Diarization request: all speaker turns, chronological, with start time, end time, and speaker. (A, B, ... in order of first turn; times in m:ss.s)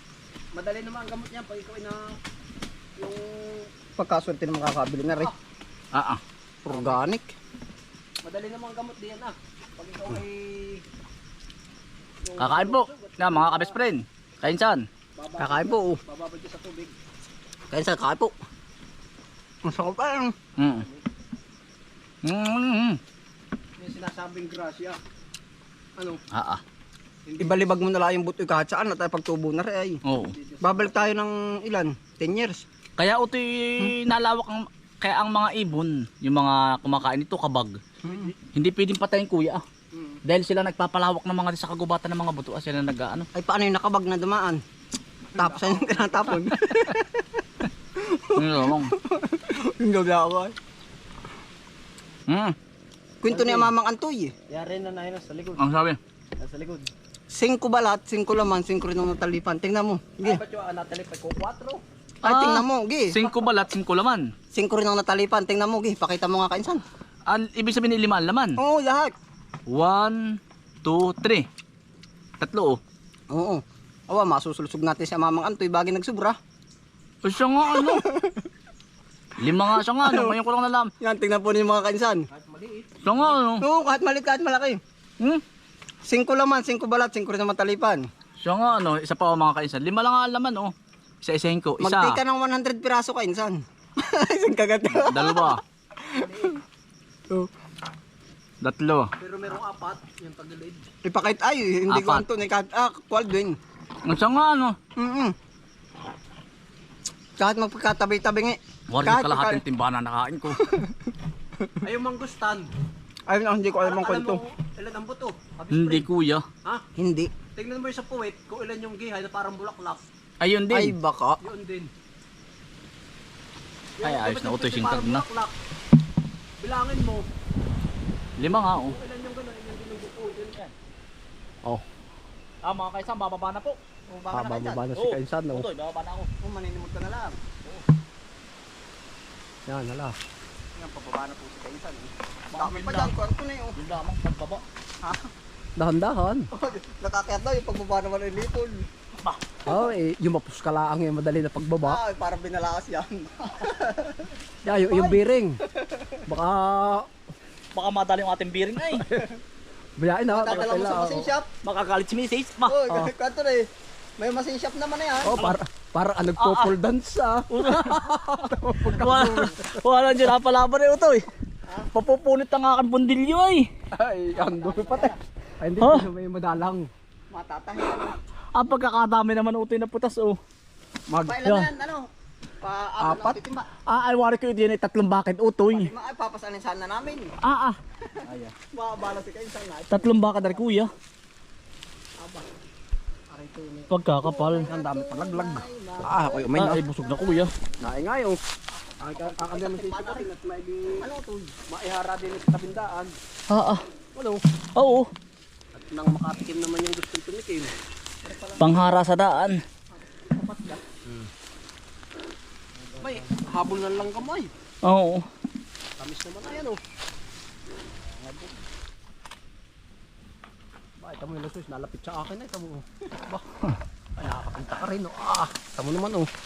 0:00.5-0:02.2 A
0:03.0-0:03.7 A
0:04.0-0:05.3 B
0:05.9-0:06.2 C
0:06.6-0:07.3 B
0:06.7-0:07.0 A
0:08.2-0:10.8 A
0:12.2-0:13.8 A
0:12.4-0:14.9 C
0:15.2-0:17.0 A
0:15.4-0:16.0 B
0:17.7-0:18.4 B
0:19.6-0:20.4 B
0:20.6-0:20.9 C
0:22.2-0:23.0 C
0:23.8-0:25.0 A
0:26.0-0:26.2 A
0:26.3-0:26.6 C
0:27.3-0:27.8 A
0:27.4-0:30.0 B
0:30.0-0:30.4 C
0:30.2-0:31.1 A
0:30.6-0:32.6 B
0:33.0-0:37.8 C
0:38.0-0:38.3 A
0:38.5-0:39.6 C
0:40.2-0:43.3 C
0:43.4-0:44.6 B
0:45.3-0:46.4 A
0:45.4-0:47.4 B
0:48.0-0:50.5 B
0:48.4-0:48.9 C
0:52.3-0:52.6 C
0:53.2-0:54.3 B
0:53.3-0:53.7 A
0:54.5-0:55.6 A
0:55.6-0:56.0 C
0:56.4-0:56.9 A
0:57.3-1:00.4 B
1:00.2-1:01.8 A
1:02.2-1:04.3 C
1:02.2-1:03.2 B
1:04.5-1:06.8 B
1:07.3-1:08.6 C
1:08.6-1:09.1 B
1:09.7-1:11.5 C
1:12.4-1:12.8 C
1:13.3-1:16.4 B
1:17.2-1:18.0 C
1:17.7-1:18.4 B
1:19.4-1:20.9 C
1:19.7-1:20.4 B
1:21.0-1:22.3 B
1:22.3-1:23.2 A
1:23.0-1:23.6 C
1:23.6-1:24.8 B
1:26.0-1:28.0 B
1:28.4-1:32.2 C
1:31.8-1:36.4 B
1:34.9-1:35.6 C
1:36.2-1:36.6 A
1:38.6-1:39.1 C
1:39.2-1:40.9 A
1:41.0-1:43.6 B
1:41.9-1:42.3 C
1:44.1-1:44.8 C
1:45.0-1:45.4 B
1:47.4-1:49.6 B
1:48.9-1:50.6 C
1:50.6-1:51.0 B
1:51.8-1:52.7 A
1:53.3-1:54.4 B
1:53.8-1:56.1 A
1:55.7-1:56.5 C
1:57.0-1:57.3 B
1:57.6-2:00.0 A
2:00.4-2:00.9 C
2:00.7-2:01.4 B
2:01.4-2:01.9 A
2:04.0-2:05.5 A
2:04.0-2:05.3 C
2:06.6-2:07.3 A
2:08.4-2:09.0 C
2:08.5-2:10.6 A
2:12.6-2:13.8 C
2:14.1-2:14.9 B
2:14.3-2:15.7 A
2:15.0-2:16.3 C
2:16.4-2:17.4 B
2:19.7-2:20.2 A
2:20.8-2:23.8 B
2:22.5-2:23.1 C
2:23.8-2:24.6 C
2:25.8-2:26.5 A
2:26.5-2:28.9 B
2:29.7-2:32.0 A
2:31.8-2:36.2 B
2:34.6-2:35.6 A
2:36.3-2:37.1 A
2:37.7-2:39.1 C
2:40.0-2:41.3 A
2:40.3-2:41.5 B
2:41.6-2:43.0 C
2:42.7-2:43.7 B
2:44.2-2:45.4 B
2:45.2-2:49.6 A
2:46.4-2:46.7 C
2:47.5-2:51.2 C
2:51.9-2:53.7 C
2:53.9-2:56.9 A
2:54.4-2:55.2 B
2:55.8-2:56.0 C
2:57.3-2:58.2 B
2:58.6-3:00.4 C
3:01.1-3:01.4 A
3:01.2-3:02.1 B
3:01.4-3:01.7 C
3:02.6-3:03.7 B
3:03.0-3:03.4 A
3:03.9-3:05.9 C
3:05.7-3:07.3 B
3:07.4-3:07.8 C
3:08.7-3:10.6 B
3:09.9-3:10.9 C
3:12.2-3:12.5 B
3:13.3-3:17.5 B
3:13.9-3:14.7 C
3:14.7-3:16.8 A
3:16.5-3:17.5 C
3:17.8-3:18.4 A
3:19.0-3:21.1 A
3:19.0-3:20.3 B
3:21.0-3:21.6 B
3:21.7-3:23.2 A
3:23.5-3:23.8 C
3:24.2-3:24.4 A
3:24.8-3:25.1 C
3:25.7-3:27.7 A
3:28.2-3:28.9 B
3:28.6-3:29.6 C
3:29.9-3:30.8 B
3:33.0-3:34.5 A
3:34.8-3:35.3 C
3:36.0-3:36.8 A
3:38.0-3:38.6 A
3:41.0-3:43.4 A
3:44.2-3:46.3 A